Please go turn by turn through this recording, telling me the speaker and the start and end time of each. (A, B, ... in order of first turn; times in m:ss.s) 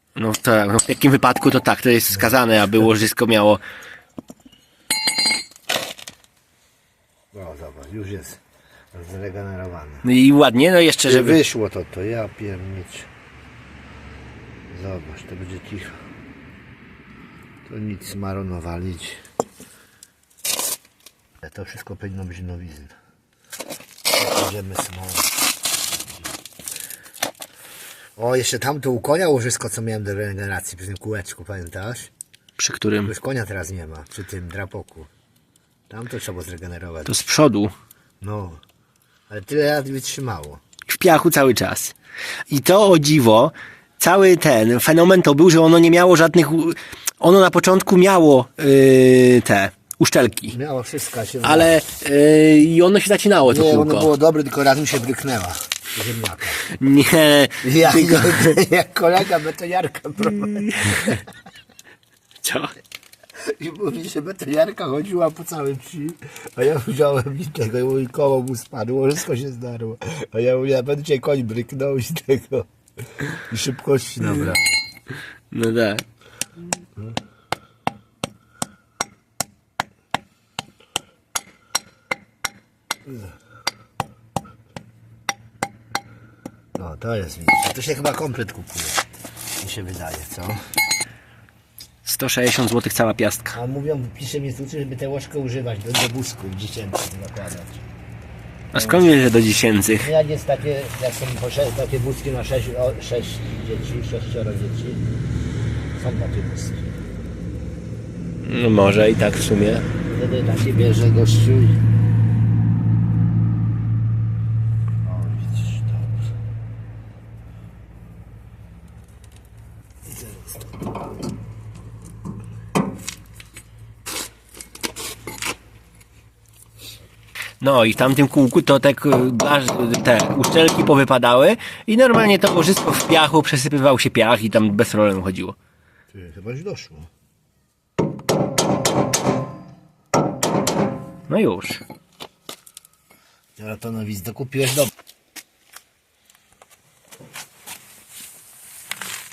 0:00.2-0:03.6 A
0:07.3-0:08.4 B
0:08.9-0:10.1 B
0:10.0-0:11.4 A
0:11.0-0:13.1 B
0:14.7-0:16.0 B
0:17.6-0:19.2 B
0:21.4-0:22.9 B
0:24.1-0:25.3 B
0:28.2-0:32.1 B
0:32.6-0:33.1 A
0:33.0-0:35.1 B
0:35.9-0:37.2 B
0:37.0-0:37.7 A
0:38.2-0:38.6 B
0:39.3-0:40.6 B
0:40.9-0:41.9 A
0:42.5-0:50.5 A
0:50.5-0:51.8 B
0:51.4-0:54.1 A
0:53.4-0:56.6 B
0:56.7-0:58.4 A
0:57.6-1:01.2 B
1:00.2-1:01.1 A
1:02.4-1:02.7 A
1:03.6-1:14.8 B
1:15.5-1:16.0 A
1:23.0-1:23.3 B
1:26.8-1:29.0 B
1:29.6-1:30.6 B
1:32.0-1:33.6 A
1:33.5-1:37.8 B
1:38.7-1:40.1 A
1:38.7-1:39.1 B
1:39.9-1:45.0 B
1:45.9-1:46.8 B
1:48.4-1:49.9 A
1:50.0-1:51.8 B
1:55.0-1:56.3 B
2:00.0-2:00.8 B
2:07.6-2:15.5 A
2:16.1-2:17.1 B
2:21.3-2:21.8 A
2:23.6-2:24.9 B